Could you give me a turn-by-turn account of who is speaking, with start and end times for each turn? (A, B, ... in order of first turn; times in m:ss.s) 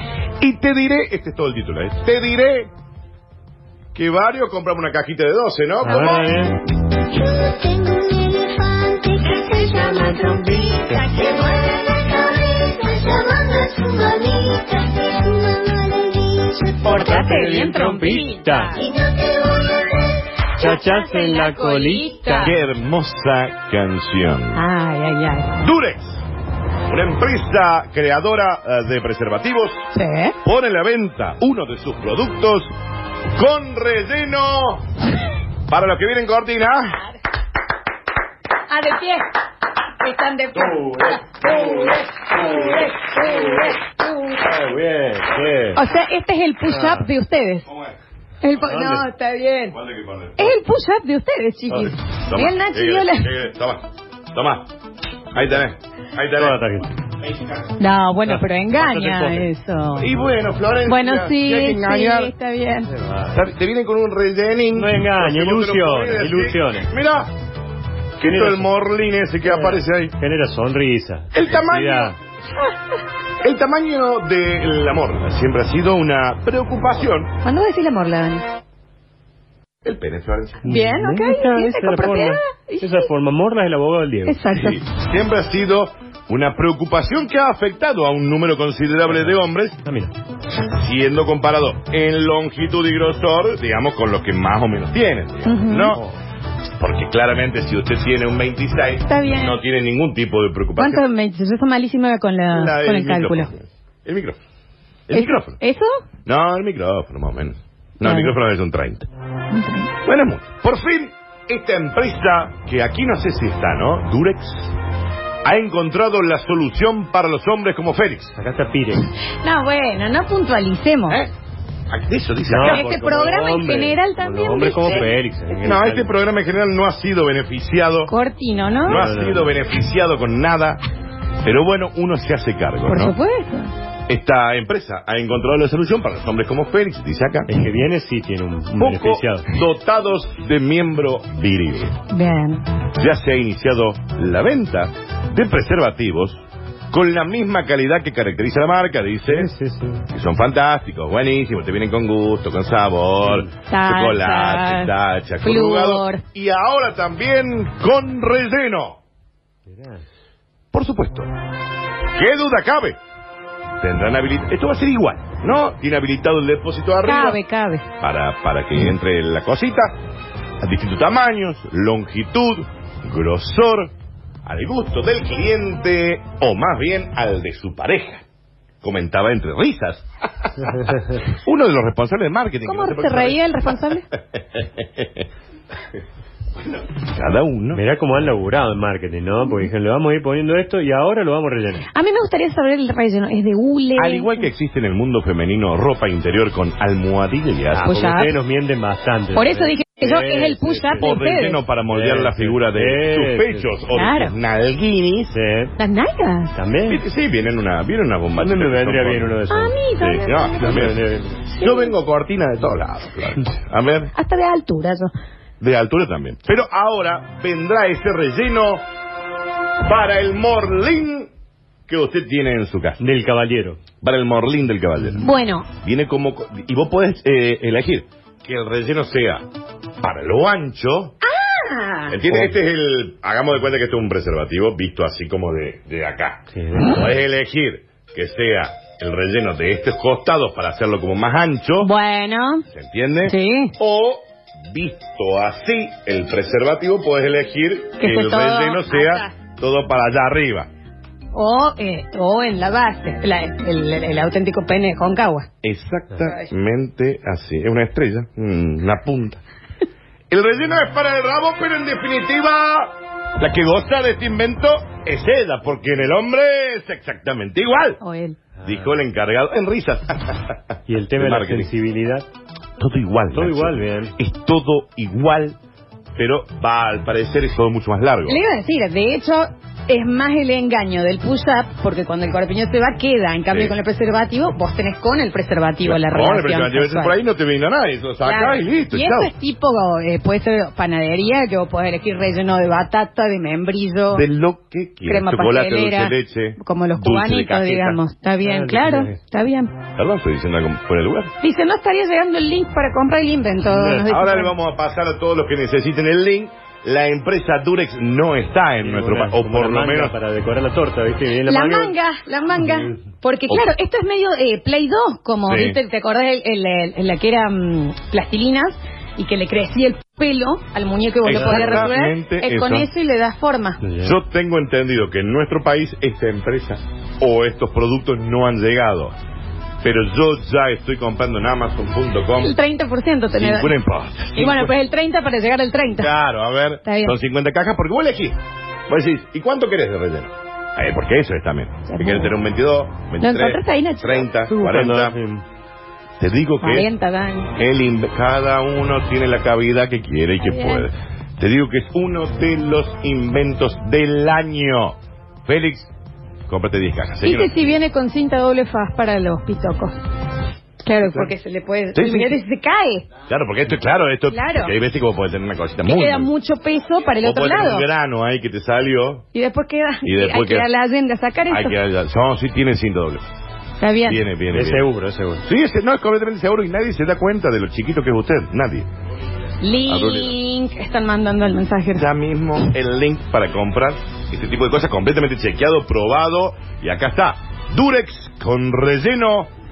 0:00.4-0:02.7 A
0:03.9-0:06.5 A
0:05.8-0:06.6 B
0:07.2-0:16.8 C
0:09.1-0:14.4 D
0:16.7-0:19.0 D
0:16.8-0:18.8 B
0:18.8-0:19.9 C
0:20.5-0:22.6 D
0:20.6-0:22.6 B
0:22.4-0:24.6 A
0:24.5-0:25.6 D
0:25.6-0:26.2 A
0:26.9-0:29.8 A
0:29.9-0:30.4 D
0:30.4-0:32.7 A
0:33.4-0:34.8 A
0:35.7-0:37.0 A
0:38.7-0:39.3 D
0:40.0-0:44.5 D
0:40.6-0:43.8 B
0:44.4-0:45.8 B
0:45.8-0:47.7 D
0:46.6-0:47.1 B
0:48.4-0:49.8 D
0:48.6-0:49.1 B
0:49.7-0:50.5 A
0:50.4-0:53.3 D
0:51.7-0:54.7 A
0:55.3-0:56.6 A
0:56.4-0:56.9 B
0:57.8-1:00.1 D
0:58.2-0:59.5 B
1:00.0-1:02.3 A
1:00.9-1:02.9 D
1:02.9-1:03.4 B
1:03.3-1:07.3 A
1:04.8-1:06.9 B
1:08.2-1:10.2 A
1:08.2-1:08.7 B
1:09.4-1:12.2 B
1:11.3-1:12.2 A
1:13.4-1:17.3 A
1:17.4-1:18.5 D
1:19.8-1:20.7 A
1:20.6-1:23.1 D
1:20.6-1:24.4 B
1:24.3-1:24.8 D
1:24.5-1:29.8 A
1:29.1-1:30.1 B
1:30.6-1:36.0 A
1:35.4-1:36.0 D
1:36.8-1:41.0 A
1:39.1-1:39.6 D
1:40.8-1:43.5 D
1:42.5-1:44.4 A
1:45.1-1:45.6 A
1:45.1-1:46.0 D
1:46.3-1:49.1 A
1:48.0-1:48.4 D
1:49.5-1:49.9 D
1:50.0-1:54.8 A
1:55.4-1:58.4 A
1:58.4-1:59.1 B
1:59.4-2:01.2 D
2:01.9-2:02.9 A
2:02.5-2:06.1 B
2:02.6-2:05.1 D
2:05.6-2:08.1 A
2:08.1-2:09.1 D
2:08.9-2:10.8 A
2:08.9-2:09.6 B
2:11.4-2:13.2 A
2:12.9-2:13.7 D
2:14.1-2:17.6 A
2:17.5-2:19.5 B
2:18.8-2:22.0 A
2:22.1-2:22.7 D
2:22.9-2:26.4 A
2:26.9-2:29.5 A
2:29.3-2:30.0 B
2:30.1-2:39.0 A
2:33.7-2:34.9 D
2:35.4-2:36.2 D
2:39.7-2:40.0 B
2:40.7-2:41.3 A
2:42.1-2:43.0 A
2:43.8-2:47.4 A
2:47.0-2:47.9 D
2:48.0-2:50.0 A
2:50.6-2:53.9 A
2:54.5-2:58.2 A
2:58.8-3:03.4 A
3:02.6-3:04.1 D
3:04.3-3:05.3 A
3:06.6-3:07.8 A
3:07.7-3:11.9 B
3:11.9-3:14.5 D
3:14.0-3:17.9 A
3:17.7-3:21.1 B
3:17.8-3:18.3 D
3:19.3-3:21.6 D
3:21.0-3:25.4 A
3:21.9-3:23.7 B
3:23.9-3:24.4 D
3:25.3-3:25.7 B
3:25.8-3:26.6 D
3:26.6-3:27.0 B
3:26.9-3:29.4 A
3:28.4-3:29.8 B
3:29.5-3:30.9 D
3:30.0-3:31.0 A
3:30.6-3:31.5 B
3:31.5-3:32.0 D
3:31.6-3:34.1 A
3:34.2-3:35.1 D
3:35.6-3:38.8 A
3:39.8-3:41.3 A
3:41.9-3:43.0 A
3:43.0-3:43.8 B
3:44.0-3:49.4 A
3:45.2-3:45.7 D
3:50.0-3:51.2 A
3:51.4-3:52.2 D
3:52.1-4:01.9 A
3:52.3-3:52.6 B
3:56.5-3:57.0 B
4:01.8-4:02.6 D
4:02.7-4:10.7 A
4:03.2-4:03.7 D
4:08.0-4:09.3 D
4:11.3-4:15.5 D
4:15.6-4:19.4 A
4:16.2-4:16.5 D
4:20.3-4:28.0 A
4:28.0-4:28.4 D
4:28.6-4:31.7 A
4:30.9-4:32.3 B
4:32.8-4:35.6 A
4:33.3-4:34.2 B
4:36.2-4:38.4 A
4:38.3-4:47.2 D
4:43.5-4:43.8 A
4:45.8-4:49.3 A
4:48.2-4:54.3 D
4:54.1-4:58.0 A
4:55.0-4:59.7 D
4:58.4-4:59.2 B
5:00.0-5:01.3 A
5:01.4-5:04.5 D
5:03.6-5:04.1 B
5:04.1-5:10.1 A
5:08.8-5:11.9 B
5:11.4-5:23.8 D
5:15.5-5:15.8 A
5:21.2-5:22.9 A
5:21.3-5:21.9 B
5:23.8-5:24.2 B
5:24.0-5:29.1 A
5:29.8-5:32.6 A
5:32.4-5:33.7 D
5:33.3-5:34.7 A
5:34.4-5:36.1 D
5:36.0-5:38.4 A
5:36.8-5:37.2 D
5:38.9-5:45.2 A
5:41.9-5:42.3 D
5:43.2-5:44.7 D
5:44.5-5:45.4 B
5:46.2-5:46.9 A
5:46.6-5:47.5 D
5:47.6-5:55.0 A
5:50.4-5:50.9 D
5:55.5-5:55.9 A
5:56.5-5:57.5 A
5:57.2-5:59.9 D
6:00.8-6:03.1 D
6:01.0-6:01.3 A
6:02.0-6:02.4 A
6:03.3-6:06.3 A
6:04.3-6:04.7 D
6:05.8-6:07.9 D
6:07.2-6:09.2 A
6:09.3-6:11.8 D
6:10.0-6:10.7 A
6:11.5-6:13.3 A
6:13.8-6:14.2 D
6:14.0-6:14.9 A
6:14.5-6:15.4 B
6:15.4-6:18.9 A
6:19.6-6:22.1 D
6:19.9-6:20.3 A
6:22.0-6:29.5 A